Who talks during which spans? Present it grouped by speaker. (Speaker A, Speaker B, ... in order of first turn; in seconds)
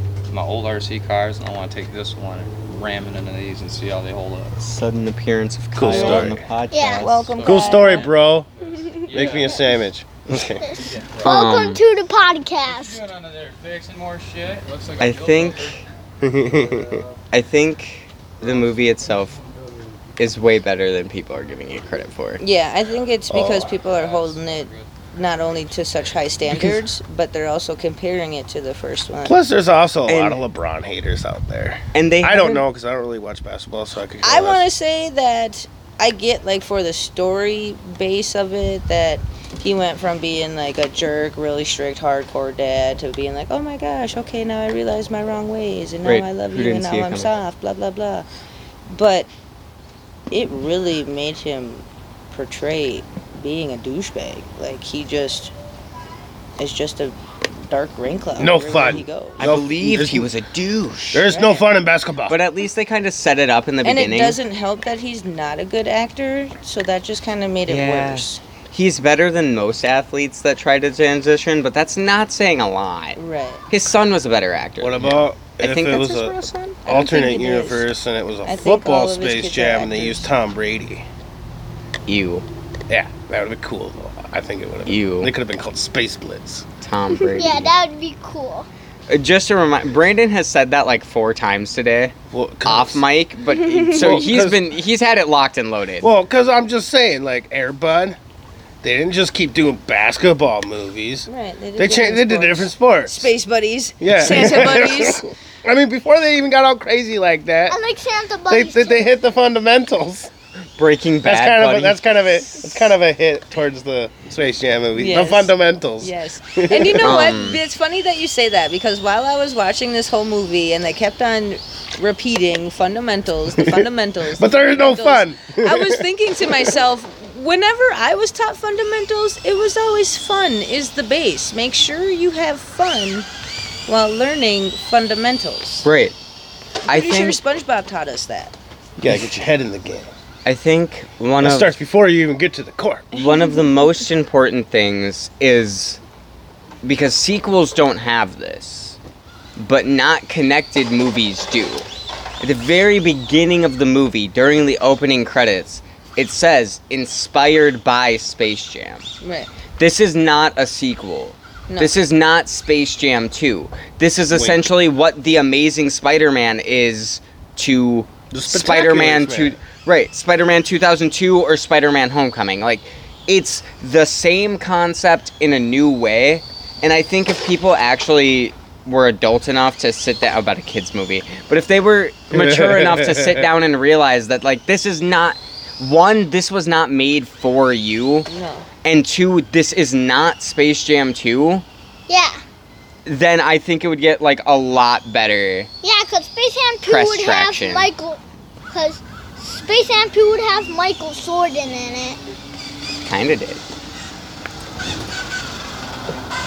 Speaker A: 0.3-4.6, 5.9-6.3, 7.4-8.1, 9.0-9.8, 10.8-11.4, 12.7-15.8, 16.7-17.0, 18.4-18.9, 23.7-24.9
Speaker B: 4.6-7.5, 11.2-11.8, 15.0-15.8, 17.3-19.4, 20.2-22.4, 30.1-30.4, 31.9-32.6, 46.0-47.3, 59.4-61.3, 62.3-64.4, 67.7-76.8, 82.1-82.5, 84.9-85.3, 86.8-87.7, 89.1-96.1, 110.8-112.0, 117.0-117.6, 135.8-136.2, 136.9-137.4, 140.4-141.7, 143.1-146.0, 146.8-149.0, 149.6-151.9, 152.4-159.1, 159.8-188.3, 188.8-191.7, 193.1-195.7, 196.8-197.9, 203.0-203.6
Speaker C: 5.8-6.4, 7.4-8.5, 9.1-10.9, 16.2-17.0, 23.3-23.8, 26.5-26.8, 29.2-34.7, 58.4-60.3, 61.1-62.4, 74.8-81.0, 82.9-86.7, 92.3-93.0, 93.9-94.6, 96.0-98.2, 98.8-103.3, 104.0-107.8, 108.5-110.3, 111.2-117.2, 123.6-126.1, 139.0-140.1, 141.4-143.1, 164.3-164.7, 168.3-169.6, 182.3-183.5
Speaker D: 6.7-7.0, 10.6-13.0, 87.4-88.7, 107.7-109.1, 192.1-192.4, 195.8-198.2, 198.7-202.2
Speaker E: 7.0-8.1, 22.4-29.4, 34.2-48.3, 48.9-49.3, 50.3-55.5, 56.6-59.4, 61.3-61.6, 63.8-68.4, 73.2-73.6, 76.9-77.8, 78.5-80.3, 93.7-94.4, 101.3-105.3, 114.9-133.3, 133.9-135.9, 136.9-138.6, 143.2-143.7, 159.2-159.5, 161.7-161.9, 188.3-188.7